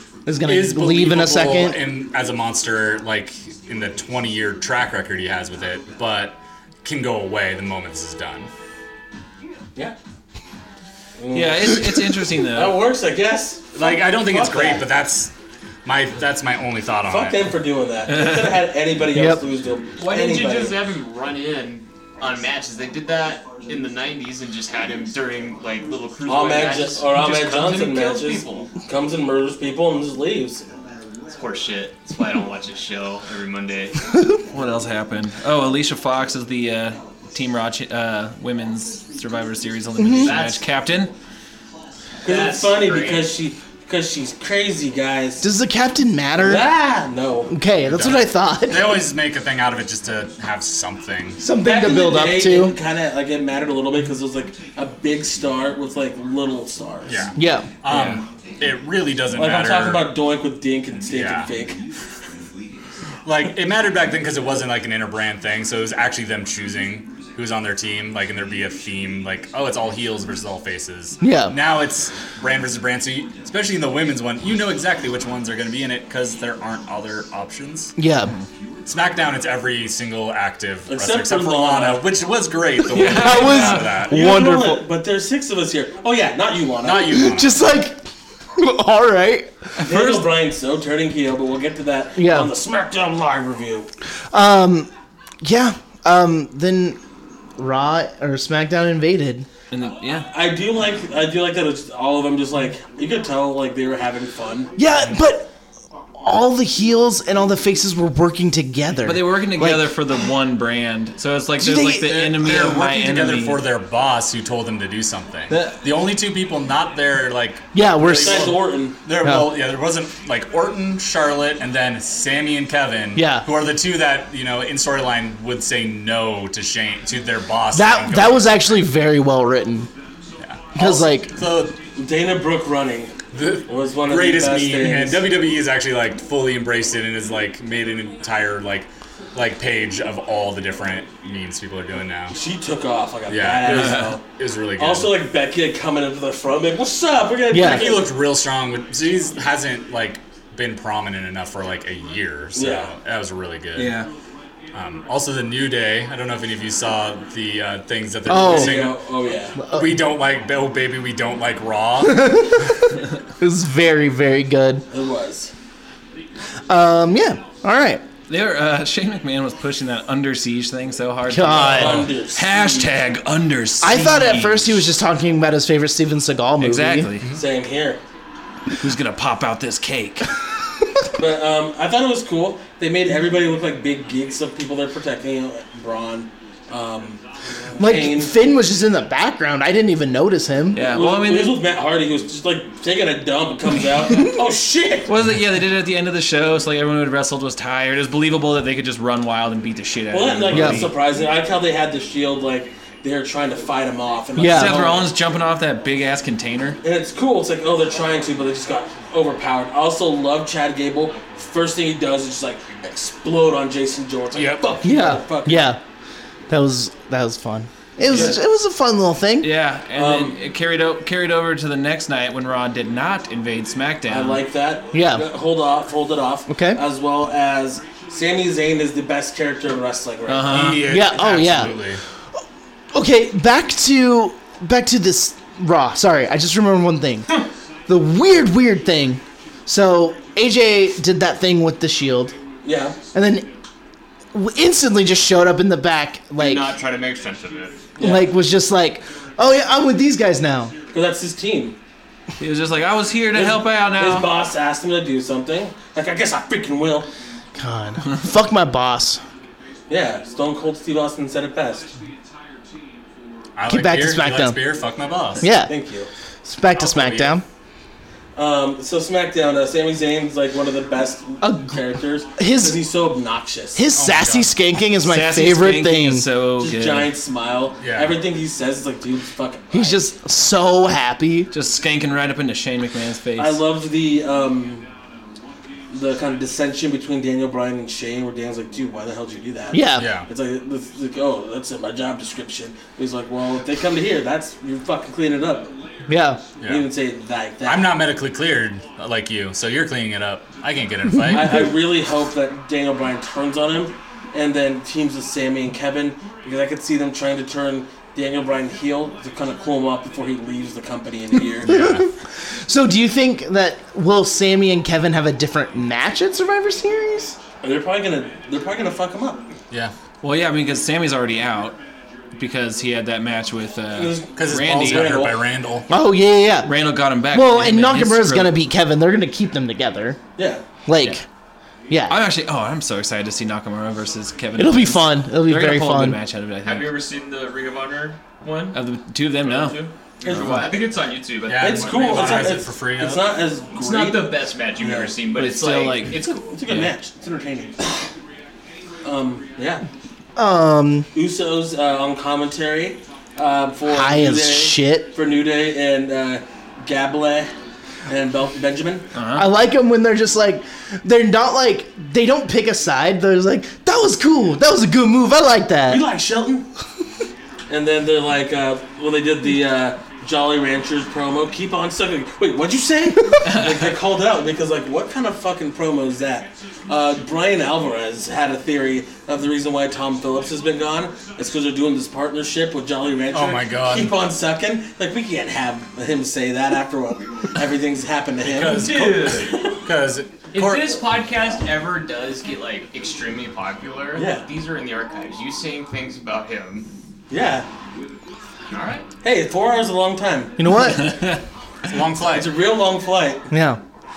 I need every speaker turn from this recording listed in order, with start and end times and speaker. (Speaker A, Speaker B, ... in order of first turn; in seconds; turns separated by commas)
Speaker A: 0.2-1.8, Speaker B: 0.4-8.5, Speaker C: 11.2-11.9, Speaker D: 11.3-12.8, Speaker C: 12.5-14.8, Speaker B: 13.7-15.3, Speaker B: 15.8-17.4, Speaker C: 17.1-20.8, Speaker A: 19.1-19.4, Speaker E: 20.0-28.7, Speaker C: 26.3-30.6, Speaker E: 31.3-33.9, Speaker D: 34.5-41.1, Speaker A: 40.0-40.4, Speaker E: 40.1-40.6, Speaker E: 42.2-43.3, Speaker C: 42.2-45.5, Speaker A: 45.4-46.7, Speaker C: 46.4-47.5, Speaker A: 47.5-49.0, Speaker B: 47.8-51.4, Speaker A: 51.4-52.8, Speaker C: 51.6-57.3, Speaker B: 57.0-60.1, Speaker A: 57.4-57.7, Speaker D: 57.9-58.2, Speaker C: 59.3-61.8, Speaker B: 61.1-61.5, Speaker B: 63.2-77.9, Speaker A: 71.2-71.5, Speaker A: 78.0-78.3, Speaker B: 78.8-84.2, Speaker C: 80.9-82.1, Speaker D: 82.9-83.9, Speaker A: 83.0-84.8, Speaker C: 83.9-87.3, Speaker B: 86.8-87.6, Speaker A: 87.1-88.0, Speaker A: 88.5-89.5, Speaker D: 89.8-90.3, Speaker C: 89.8-93.9, Speaker A: 92.2-92.5, Speaker A: 94.3-94.9, Speaker A: 95.4-97.0, Speaker A: 97.6-99.5, Speaker D: 99.7-100.3, Speaker C: 100.3-104.7, Speaker A: 104.8-105.5, Speaker A: 106.1-110.0, Speaker D: 109.0-113.6, Speaker A: 111.6-112.5, Speaker B: 111.9-128.8, Speaker D: 115.5-115.8, Speaker A: 117.7-118.6, Speaker C: 118.0-119.0, Speaker A: 119.2-119.5, Speaker A: 123.1-123.5, Speaker A: 127.7-129.9, Speaker B: 130.4-131.8, Speaker A: 130.7-131.3, Speaker C: 131.9-133.2, Speaker B: 133.3-142.3, Speaker C: 133.7-135.2, Speaker C: 142.3-144.2, Speaker B: 143.3-145.1, Speaker D: 143.7-144.1, Speaker C: 144.8-148.1, Speaker A: 147.5-147.9, Speaker B: 147.5-154.0, Speaker C: 152.5-152.9, Speaker D: 153.7-154.1, Speaker B: 154.7-159.0, Speaker A: 158.3-158.9, Speaker C: 158.4-159.6, Speaker A: 159.6-160.0, Speaker B: 159.6-162.7, Speaker A: 162.0-162.8, Speaker A: 163.4-164.8, Speaker C: 164.9-165.5, Speaker A: 166.7-168.0, Speaker D: 168.3-174.8, Speaker A: 171.3-172.1, Speaker C: 171.5-172.9, Speaker A: 173.8-177.1, Speaker D: 176.6-177.3, Speaker C: 177.3-178.0, Speaker D: 178.8-180.3, Speaker C: 181.2-187.2, Speaker C: 187.7-188.3, Speaker A: 187.8-190.8, Speaker D: 190.7-191.6, Speaker C: 190.8-195.1, Speaker D: 195.1-200.9, Speaker C: 200.1-205.1, Speaker A: 200.5-200.9, Speaker A: 204.3-204.9, Speaker D: 204.4-206.8, Speaker C: 206.8-215.7, Speaker B: 214.3-214.8, Speaker A: 214.8-215.8, Speaker A: 216.5-219.5, Speaker D: 218.1-218.4, Speaker C: 218.1-218.4, Speaker D: 219.4-224.4, Speaker C: 219.9-220.4, Speaker C: 224.1-230.8, Speaker A: 224.9-225.3, Speaker A: 226.5-226.8, Speaker D: 230.3-230.9, Speaker B: 230.5-232.0, Speaker A: 230.8-231.8, Speaker A: 232.9-237.3, Speaker A: 237.9-242.3, Speaker C: 242.6-242.9, Speaker A: 243.1-243.5, Speaker A: 244.3-246.7, Speaker E: 246.4-247.8, Speaker C: 248.0-248.3, Speaker A: 248.0-250.7, Speaker C: 250.9-251.8, Speaker D: 252.4-254.3, Speaker C: 253.3-257.1, Speaker A: 257.6-259.2, Speaker C: 259.9-261.9, Speaker B: 263.6-265.5, Speaker A: 263.7-264.6, Speaker A: 265.4-265.7, Speaker C: 265.5-266.1, Speaker A: 266.4-267.4, Speaker B: 266.7-267.4, Speaker C: 268.3-273.9, Speaker A: 271.4-271.8, Speaker A: 272.3-272.8, Speaker A: 273.7-276.3, Speaker B: 273.9-274.5, Speaker D: 275.0-277.1, Speaker C: 276.6-280.1, Speaker B: 277.8-278.2, Speaker A: 279.7-281.5, Speaker D: 281.5-283.6, Speaker C: 283.4-284.9, Speaker C: 285.9-295.7, Speaker A: 289.7-290.1, Speaker B: 289.9-290.3, Speaker A: 296.1-296.4, Speaker B: 296.6-296.9, Speaker C: 296.7-297.9, Speaker B: 297.6-301.7, Speaker C: 301.3-311.7, Speaker B: 311.6-312.1, Speaker A: 311.6-317.4, Speaker C: 317.6-319.4, Speaker D: 320.2-321.8, Speaker D: 322.3-325.2, Speaker C: 323.9-325.4, Speaker B: 324.3-325.9, Speaker A: 325.9-326.8, Speaker D: 326.6-328.6, Speaker A: 327.3-330.2, Speaker C: 330.4-330.6, Speaker A: 330.9-331.2, Speaker A: 331.9-332.1, Speaker D: 332.1-336.9, Speaker A: 334.6-336.2, Speaker E: 336.6-338.8, Speaker D: 338.7-340.7, Speaker E: 339.4-342.6, Speaker C: 340.2-340.8, Speaker B: 341.5-343.3, Speaker C: 341.6-345.1, Speaker E: 343.7-346.6, Speaker D: 345.3-346.9, Speaker C: 346.5-348.1, Speaker C: 349.0-349.8, Speaker A: 350.4-351.1, Speaker C: 351.1-357.5, Speaker A: 353.9-355.1, Speaker C: 358.1-359.1, Speaker D: 359.1-359.5, Speaker A: 359.3-366.0, Speaker C: 365.9-366.7, Speaker C: 367.7-389.7, Speaker D: 373.4-373.9, Speaker B: 383.3-384.1, Speaker B: 388.4-391.0, Speaker E: 388.7-389.7, Speaker E: 390.5-396.9, Speaker C: 394.1-394.4, Speaker C: 397.3-397.7, Speaker E: 398.7-399.1, Speaker C: 399.2-400.6, Speaker A: 400.6-401.1, Speaker D: 400.7-401.4, Speaker B: 401.8-402.5, Speaker C: 402.2-403.5, Speaker A: 403.5-403.8